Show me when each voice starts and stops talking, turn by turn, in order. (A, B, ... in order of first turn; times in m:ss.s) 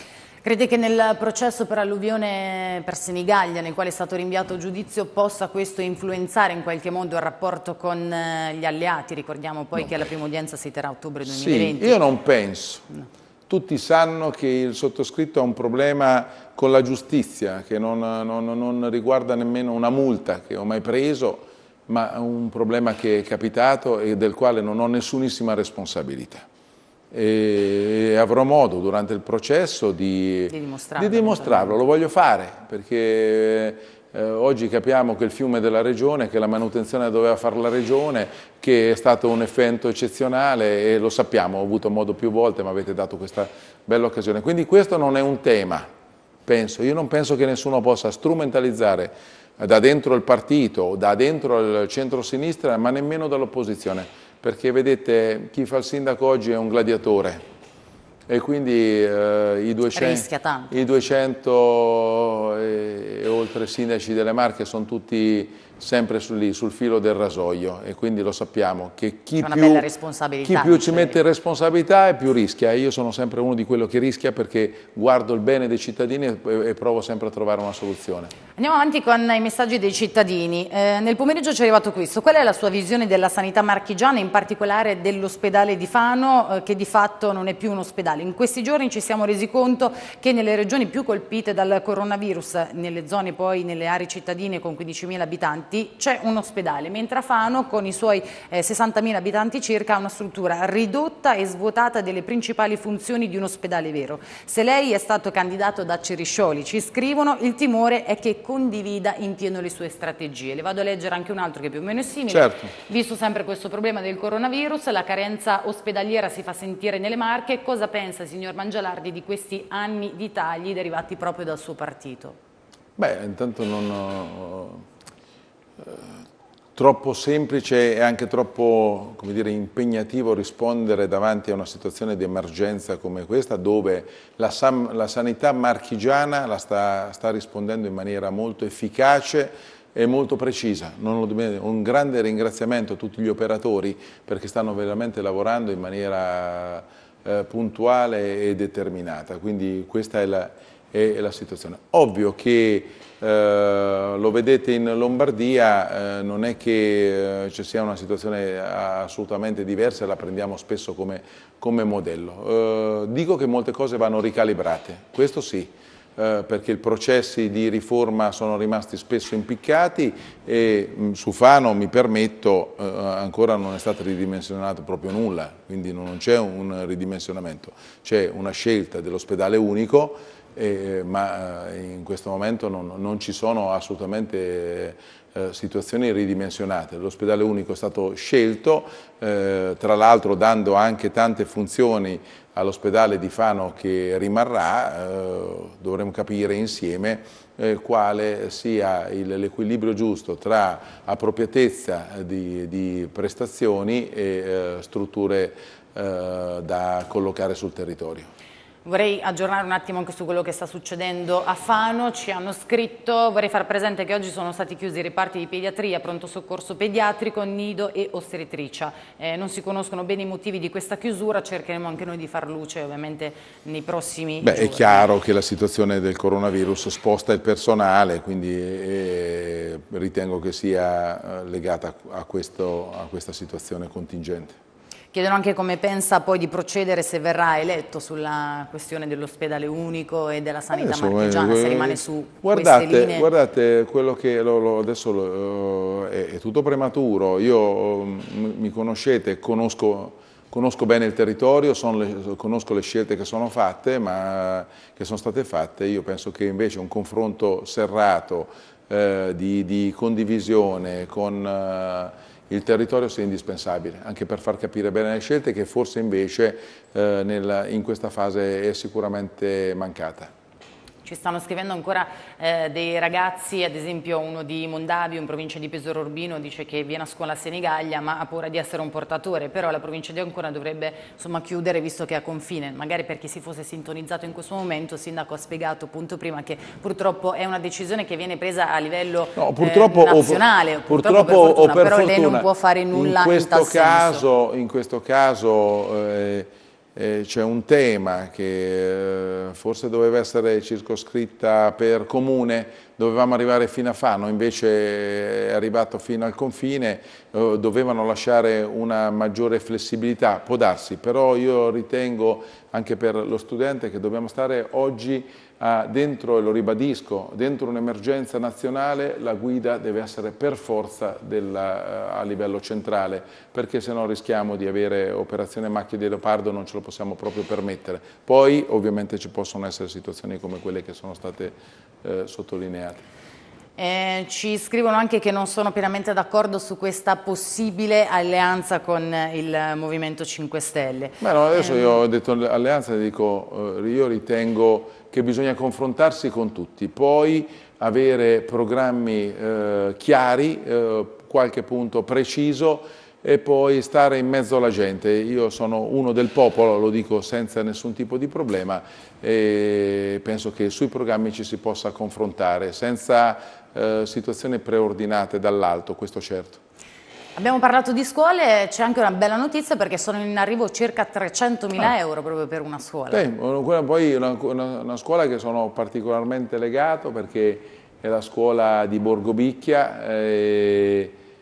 0:00.4-0:12.0 A
0:11.2-0:12.8 B
0:13.5-0:26.5 B
0:27.1-0:45.9 B
0:30.5-0:31.8 A
0:46.5-0:57.4 B
0:58.3-1:09.9 B
0:59.9-1:00.7 A
1:09.4-1:11.2 A
1:10.4-1:18.3 B
1:18.6-2:02.4 A
1:52.3-1:52.7 B
2:03.0-2:04.8 B
2:05.8-2:06.2 B
2:06.8-3:28.3 B
3:28.8-3:45.1 A
3:44.4-3:54.6 B
3:55.1-4:03.3 A
4:00.7-4:30.3 B
4:31.0-4:54.2 A
4:49.4-5:33.1 B
5:33.8-5:42.0 A
5:41.2-6:06.6 B
6:07.4-6:13.2 A
6:13.1-6:21.2 B